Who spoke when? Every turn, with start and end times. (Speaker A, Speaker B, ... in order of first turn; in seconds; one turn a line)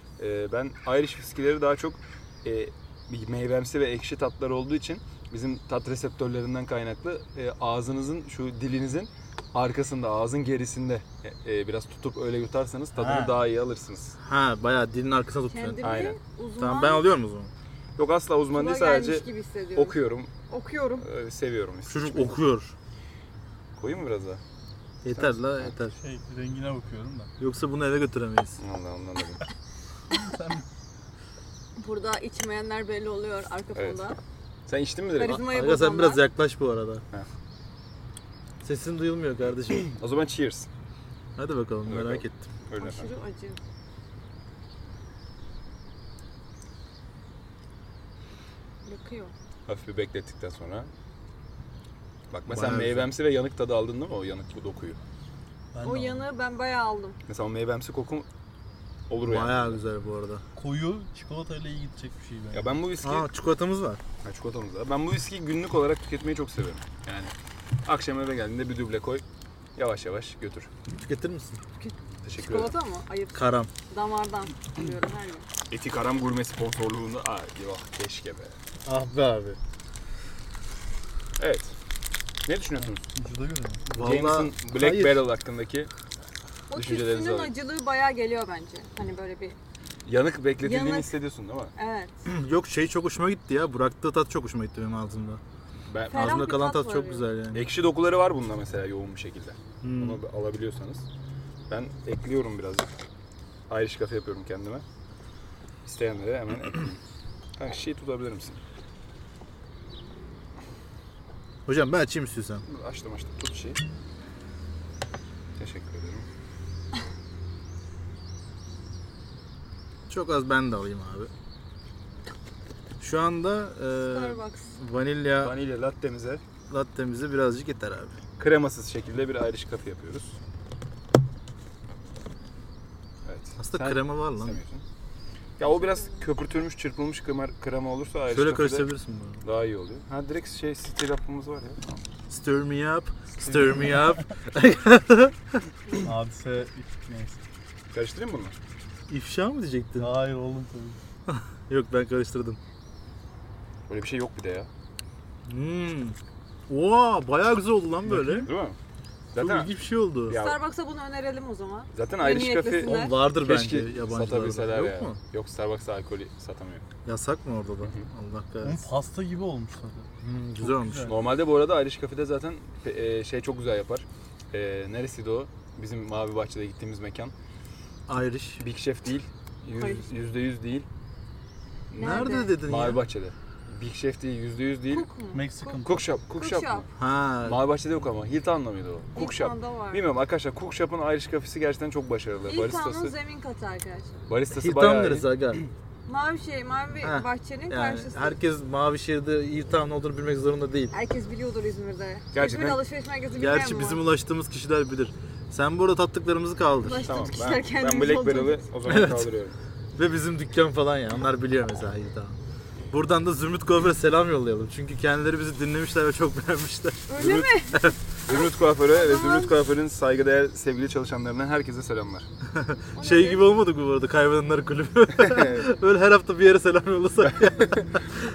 Speaker A: 0.2-14.2
Speaker B: 12.9-13.4
Speaker B: 14.2-15.8
Speaker C: 15.5-17.1
Speaker A: 15.8-16.2
Speaker B: 16.6-17.5
Speaker A: 18.0-20.3
Speaker C: 18.5-21.1
Speaker A: 21.0-22.4
Speaker B: 21.9-22.7
Speaker A: 23.8-24.4
Speaker B: 25.0-25.9
Speaker A: 25.1-25.7
Speaker D: 26.0-27.3
Speaker B: 27.4-28.6
Speaker A: 28.6-29.4
Speaker D: 30.1-30.6
Speaker C: 31.8-34.2
Speaker A: 34.7-35.4
Speaker C: 35.1-36.2
Speaker B: 35.5-37.0
Speaker B: 38.6-39.9
Speaker A: 39.9-40.7
Speaker B: 41.4-42.5
Speaker A: 41.9-43.1
Speaker C: 42.8-43.6
Speaker C: 48.8-49.3
Speaker A: 49.7-50.9
Speaker A: 52.3-55.0
Speaker B: 52.5-53.1
Speaker D: 55.7-56.2
Speaker C: 55.8-57.1
Speaker A: 57.3-58.2
Speaker A: 59.1-59.8
Speaker B: 59.2-60.4
Speaker D: 60.5-62.8
Speaker A: 62.5-63.3
Speaker B: 63.0-64.0
Speaker A: 64.2-67.3
Speaker A: 67.8-69.2
Speaker A: 69.8-70.7
Speaker B: 70.9-71.6
Speaker C: 71.8-75.5
Speaker A: 72.2-72.7
Speaker B: 73.3-73.7
Speaker A: 75.7-78.5
Speaker B: 78.8-79.6
Speaker A: 81.4-81.7
Speaker A: 82.5-83.0
Speaker D: 83.1-83.8
Speaker B: 83.9-85.2
Speaker A: 83.9-85.9
Speaker C: 86.7-89.6
Speaker A: 86.7-87.5
Speaker A: 90.0-91.7
Speaker C: 90.6-91.1
Speaker C: 91.8-92.1
Speaker B: 92.2-95.4
Speaker A: 95.9-96.4
Speaker C: 96.1-97.3
Speaker B: 96.1-97.7
Speaker A: 97.5-101.0
Speaker B: 99.8-100.2
Speaker A: 101.7-102.9
Speaker A: 103.7-104.8
Speaker A: 105.8-107.0
Speaker A: 107.6-108.6
Speaker B: 111.7-112.6
Speaker A: 112.7-113.8
Speaker A: 115.6-116.3
Speaker B: 120.1-121.3
Speaker B: 123.0-125.5
Speaker C: 124.1-124.7
Speaker A: 125.4-126.4
Speaker B: 126.7-128.1
Speaker A: 128.4-130.3
Speaker A: 133.2-134.8
Speaker B: 133.6-134.6
Speaker A: 135.6-138.9
Speaker C: 135.7-136.2
Speaker B: 138.3-139.4
Speaker A: 139.4-142.0
Speaker B: 142.3-145.6
Speaker D: 143.4-144.2
Speaker D: 146.0-147.4
Speaker A: 147.9-148.5
Speaker B: 149.1-150.1
Speaker D: 150.0-151.0
Speaker B: 151.3-152.6
Speaker A: 153.9-154.7
Speaker B: 155.5-156.2
Speaker B: 156.7-158.5
Speaker D: 158.1-158.5
Speaker A: 158.4-158.8
Speaker A: 159.3-159.7
Speaker B: 159.4-160.4
Speaker A: 160.3-160.6
Speaker C: 160.3-163.1
Speaker A: 161.9-166.8
Speaker B: 162.8-165.2
Speaker B: 167.1-168.8
Speaker D: 168.6-170.1
Speaker B: 170.2-171.1
Speaker D: 170.6-171.1
Speaker A: 171.0-177.3
Speaker B: 178.1-178.6
Speaker A: 178.6-180.8
Speaker C: 179.7-180.1
Speaker A: 181.9-185.1
Speaker C: 181.9-182.6
Speaker B: 182.0-183.0
Speaker C: 184.9-186.8
Speaker D: 185.3-186.0
Speaker A: 185.8-186.8
Speaker B: 187.0-187.6
Speaker A: 187.4-193.1
Speaker C: 189.1-190.0
Speaker C: 192.5-194.3
Speaker A: 194.3-195.6
Speaker B: 194.5-195.6
Speaker C: 196.1-198.3
Speaker B: 197.0-200.9
Speaker C: 200.9-204.0
Speaker A: 202.3-202.8
Speaker B: 203.4-207.1
Speaker C: 206.8-208.6
Speaker A: 207.0-209.5
Speaker B: 208.9-209.3
Speaker B: 209.9-212.3
Speaker B: 212.9-217.9
Speaker C: 217.1-219.6
Speaker A: 217.2-217.5
Speaker A: 218.3-222.3
Speaker B: 222.5-227.8
Speaker C: 222.9-223.5
Speaker A: 225.2-225.7
Speaker A: 227.2-227.9